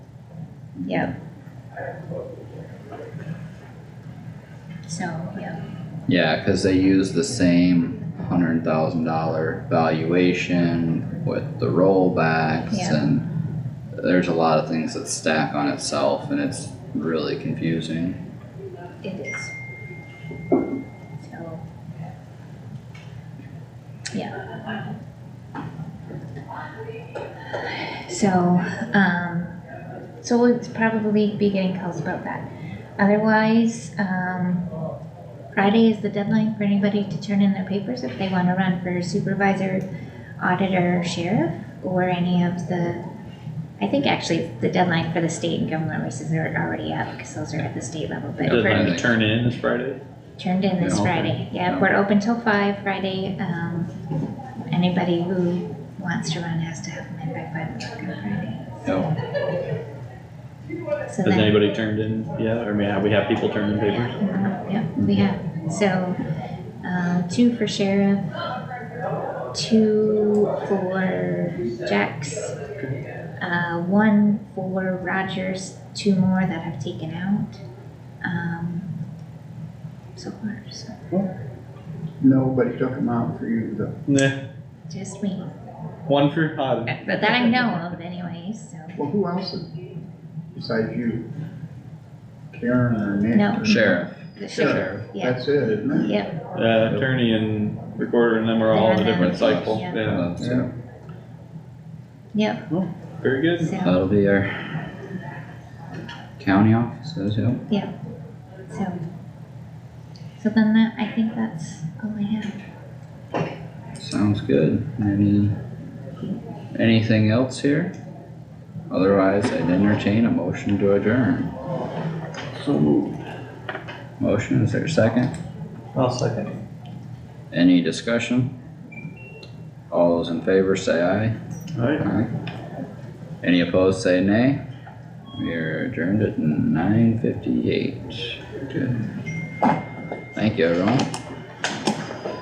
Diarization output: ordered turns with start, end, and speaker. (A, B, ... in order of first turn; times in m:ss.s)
0:00.8-0:01.1 A
0:04.8-0:05.6 A
0:06.1-0:13.3 B
0:12.7-0:13.0 A
0:14.0-0:18.2 B
0:19.0-0:19.5 A
0:21.2-0:21.6 A
0:24.1-0:24.5 A
0:27.5-0:29.6 A
0:30.2-0:32.4 A
0:33.0-0:34.7 A
0:35.5-0:39.8 A
0:40.4-0:43.0 A
0:43.8-0:49.0 A
0:48.4-0:49.2 B
0:48.5-0:50.0 C
0:50.4-0:53.9 A
0:50.8-0:51.9 B
0:54.7-0:59.0 A
0:58.8-0:59.1 B
1:01.1-1:01.6 A
1:01.2-1:04.1 C
1:03.9-1:06.2 A
1:06.8-1:08.3 A
1:09.5-1:12.6 A
1:13.4-1:17.6 A
1:18.2-1:18.9 A
1:20.2-1:21.1 A
1:22.2-1:23.9 D
1:24.1-1:24.4 C
1:24.9-1:25.5 A
1:26.1-1:27.8 C
1:26.9-1:29.0 A
1:28.9-1:29.7 D
1:30.5-1:31.2 D
1:32.5-1:34.0 D
1:33.3-1:35.4 A
1:33.6-1:35.0 B
1:34.5-1:36.2 D
1:36.0-1:36.3 A
1:36.5-1:40.3 C
1:38.7-1:40.0 A
1:39.1-1:40.7 B
1:40.4-1:40.7 D
1:42.3-1:42.6 A
1:42.7-1:43.7 C
1:43.6-1:44.0 A
1:43.8-1:44.9 B
1:46.4-1:47.6 B
1:48.7-1:49.0 A
1:50.4-1:52.6 A
1:54.0-1:55.5 B
1:56.7-1:57.9 B
1:58.9-2:01.5 B
2:02.6-2:03.2 C
2:04.2-2:05.3 B
2:05.9-2:06.6 C
2:07.5-2:08.5 B
2:09.9-2:11.4 B
2:11.8-2:12.0 C
2:12.0-2:12.3 B
2:13.4-2:14.6 B
2:15.4-2:19.1 B
2:20.3-2:21.1 B